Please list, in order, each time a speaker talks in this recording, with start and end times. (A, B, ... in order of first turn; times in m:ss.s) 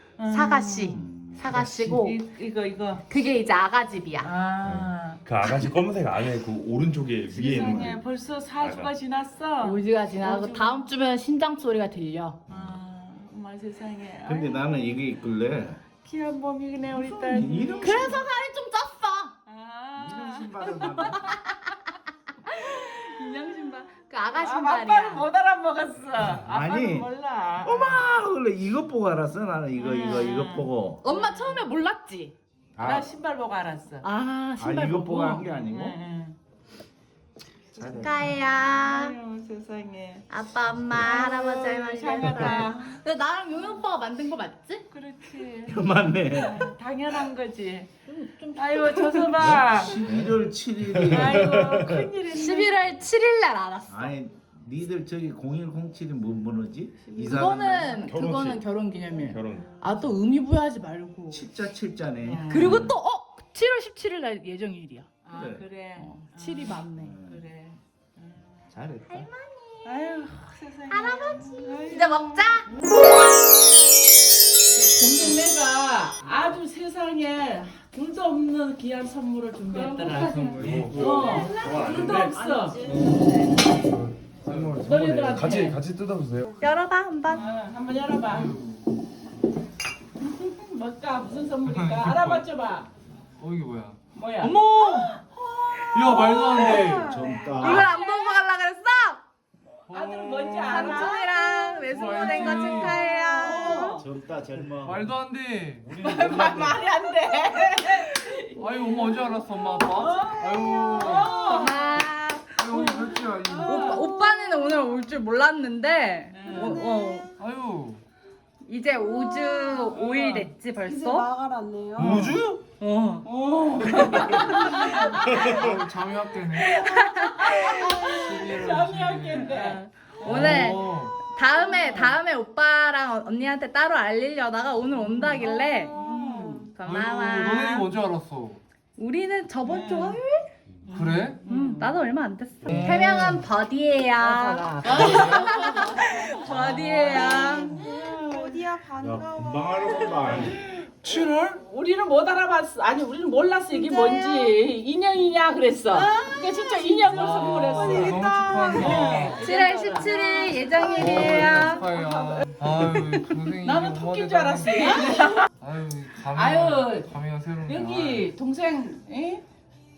0:00.2-0:01.0 A
0:00.3-0:02.2 B
0:00.9-0:01.4 C
0:01.5-0:03.1 A
0:03.1-0:04.3 B
0:04.2-0:05.2 A
0:04.6-0:08.0 D
0:07.3-0:10.9 A
0:08.6-0:08.9 D
0:09.6-0:12.4 B
0:12.5-0:15.0 A
0:14.2-0:15.8 C
0:16.0-0:18.2 A
0:16.9-0:18.2 C
0:17.8-0:19.3 B
0:19.5-0:21.1 A
0:20.0-0:21.4 C
0:20.9-0:21.8 B
0:22.4-0:25.3 B
0:24.4-0:28.1 A
0:26.2-0:27.1 C
0:27.6-0:31.0 C
0:29.8-0:31.7 A
0:31.0-0:32.3 B
0:32.8-0:33.1 C
0:32.8-0:34.1 A
0:34.0-0:35.6 B
0:34.6-0:36.0 C
0:35.6-0:36.4 A
0:37.8-0:38.2 C
0:37.8-0:39.2 B
0:37.9-0:40.2 A
0:40.3-0:44.9 B
0:41.0-0:43.0 A
0:44.9-0:47.9 A
0:45.7-0:46.6 C
0:48.1-0:49.6 B
0:48.6-0:50.1 A
0:49.4-0:50.3 D
0:49.4-0:51.7 C
0:50.9-0:52.1 D
0:51.1-0:52.8 A
0:52.3-0:54.1 B
0:53.9-0:58.1 C
0:57.1-0:57.6 A
0:57.2-1:01.5 B
0:58.1-0:58.7 D
0:59.3-0:59.8 D
1:01.3-1:02.9 C
1:02.2-1:02.8 A
1:02.5-1:05.4 B
1:05.2-1:08.6 A
1:05.3-1:05.7 C
1:06.0-1:07.2 B
1:07.0-1:07.5 C
1:08.7-1:09.3 C
1:09.1-1:10.1 B
1:09.8-1:12.6 A
1:10.9-1:12.7 B
1:14.7-1:23.2 A
1:19.7-1:20.6 B
1:20.2-1:21.0 E
1:20.6-1:22.4 D
1:21.2-1:23.4 B
1:23.7-1:26.5 D
1:24.4-1:24.8 E
1:24.8-1:25.8 A
1:26.6-1:27.6 B
1:27.3-1:28.6 A
1:28.4-1:28.9 E
1:30.2-1:32.9 A
1:31.7-1:32.4 E
1:33.4-1:34.0 E
1:34.1-1:38.4 A
1:34.4-1:35.2 B
1:35.9-1:37.1 E
1:36.0-1:36.8 B
1:37.0-1:37.9 C
1:37.5-1:39.2 B
1:39.9-1:44.0 A
1:39.9-1:40.7 E
1:40.6-1:44.0 B
1:41.9-1:43.0 E
1:43.9-1:45.1 C
1:44.8-1:45.8 E
1:45.8-1:46.8 C
1:46.0-1:52.0 A
1:48.6-1:51.3 E
1:50.8-1:52.6 B
1:52.6-1:53.7 E
1:52.6-1:54.3 A
1:53.6-1:57.3 B
1:53.7-1:54.0 D
1:56.3-1:56.8 A
1:57.4-1:58.0 E
1:58.6-2:01.3 B
1:59.0-2:02.4 A
2:02.0-2:02.6 D
2:02.0-2:02.4 E
2:02.8-2:03.3 B
2:03.2-2:05.8 A
2:03.8-2:05.1 B
2:05.3-2:05.8 D
2:05.7-2:06.7 E
2:06.5-2:12.2 A
2:06.7-2:08.2 B
2:08.2-2:09.4 E
2:09.3-2:17.9 B
2:10.3-2:11.1 E
2:15.0-2:16.7 A
2:16.8-2:18.6 E
2:19.0-2:20.5 B
2:19.6-2:20.2 A
2:20.9-2:22.0 A
2:21.0-2:21.4 E
2:21.4-2:27.8 B
2:22.7-2:23.4 E
2:24.2-2:45.5 A
2:29.0-2:30.6 C
2:31.1-2:31.6 E
2:33.7-2:34.5 B
2:35.9-2:41.9 B
2:37.2-2:39.4 E
2:41.0-2:44.8 E
2:45.6-2:48.2 E
2:46.3-2:47.1 A
2:47.6-2:49.4 A